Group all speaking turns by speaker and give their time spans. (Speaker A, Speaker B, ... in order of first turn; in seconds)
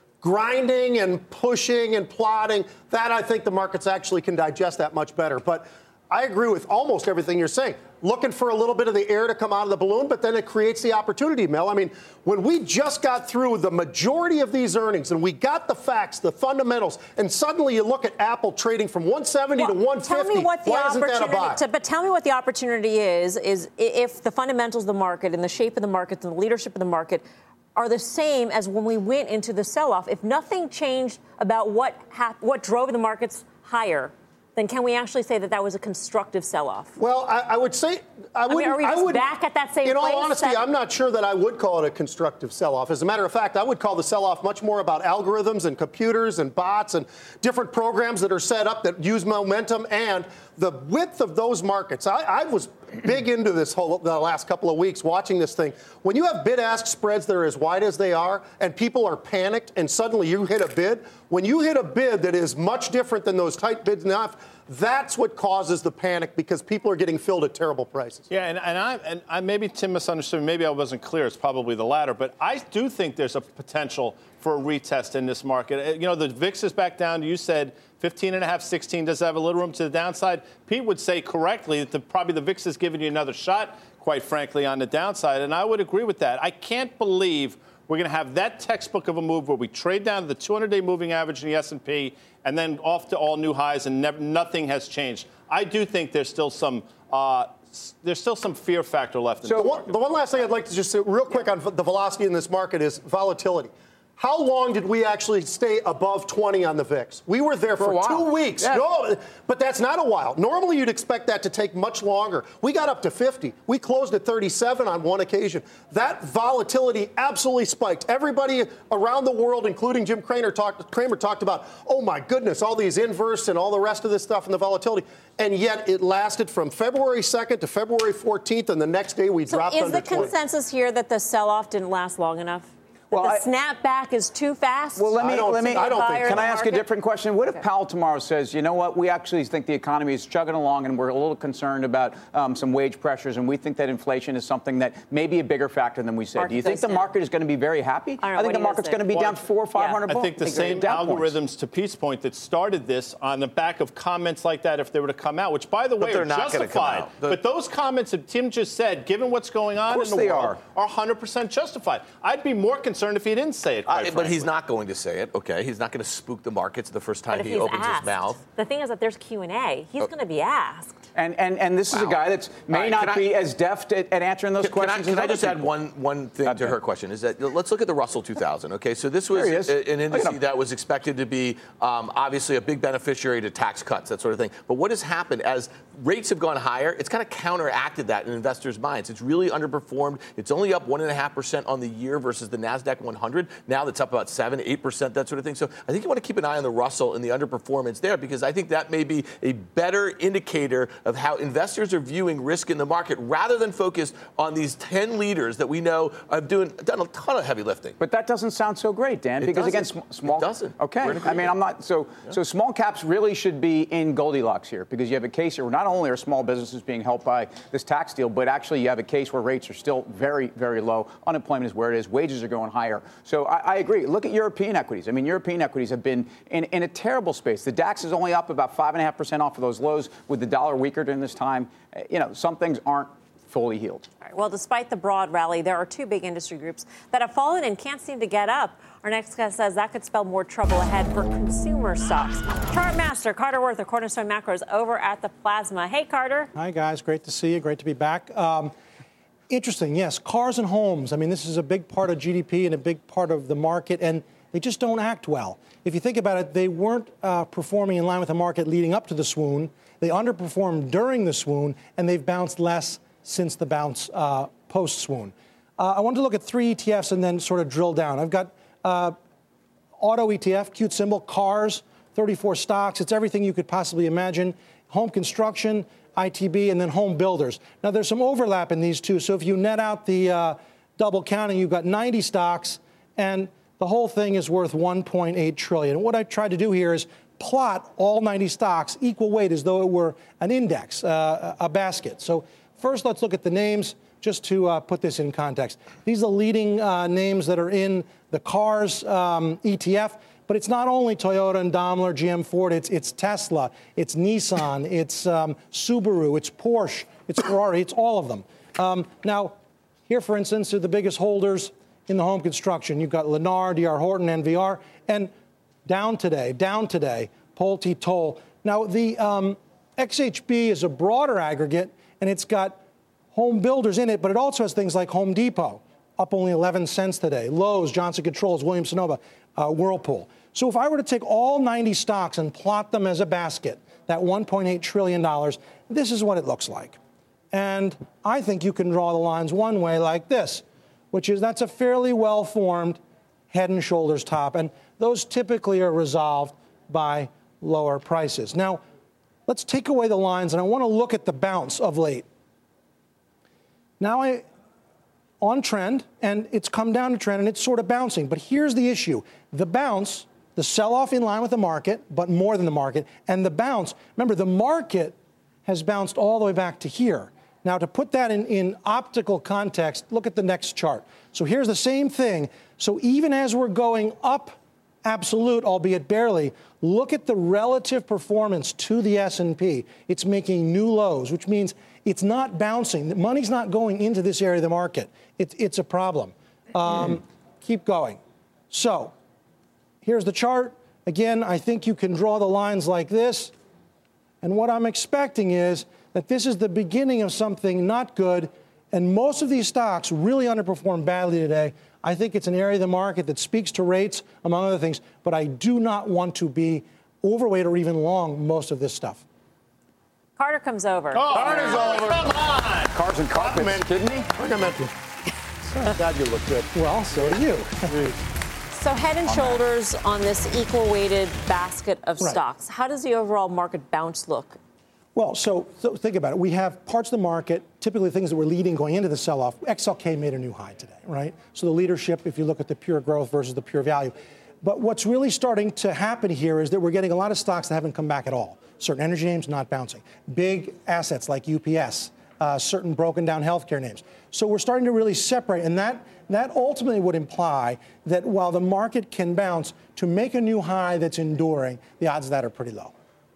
Speaker A: 0.2-21.6, 37.0-39.3, 39.8-68.3, 99.6-130.3, 135.2-136.6, 411.3-412.5, 413.3-414.9, 415.7-417.3, 417.9-418.1
Speaker B: 19.6-37.0, 38.5-40.6, 129.5-136.9, 146.4-147.1, 148.2-149.0, 149.8-150.0, 167.3-171.0, 234.2-246.5, 410.4-412.2, 418.7-424.6
Speaker C: 68.3-99.9, 149.1-149.5, 150.0-164.5, 411.1-412.9
Speaker D: 99.4-99.8, 107.8-108.9, 133.1-133.5, 135.0-151.4, 159.8-160.6, 171.1-175.7, 176.4-176.8, 179.3-180.4, 208.0-234.1, 412.9-414.3, 419.3-419.6
Speaker E: 156.0-157.4, 163.9-168.4, 171.9-173.3, 174.6-208.0, 209.4-211.6
Speaker F: 246.6-248.7, 249.5-269.2, 270.0-309.6, 310.1-315.3, 315.9-322.8, 323.3-337.0, 337.5-348.8, 349.5-352.3, 354.0-354.4, 355.4-389.1, 390.0-393.5, 394.4-409.2, 416.7-417.9, 425.1-452.9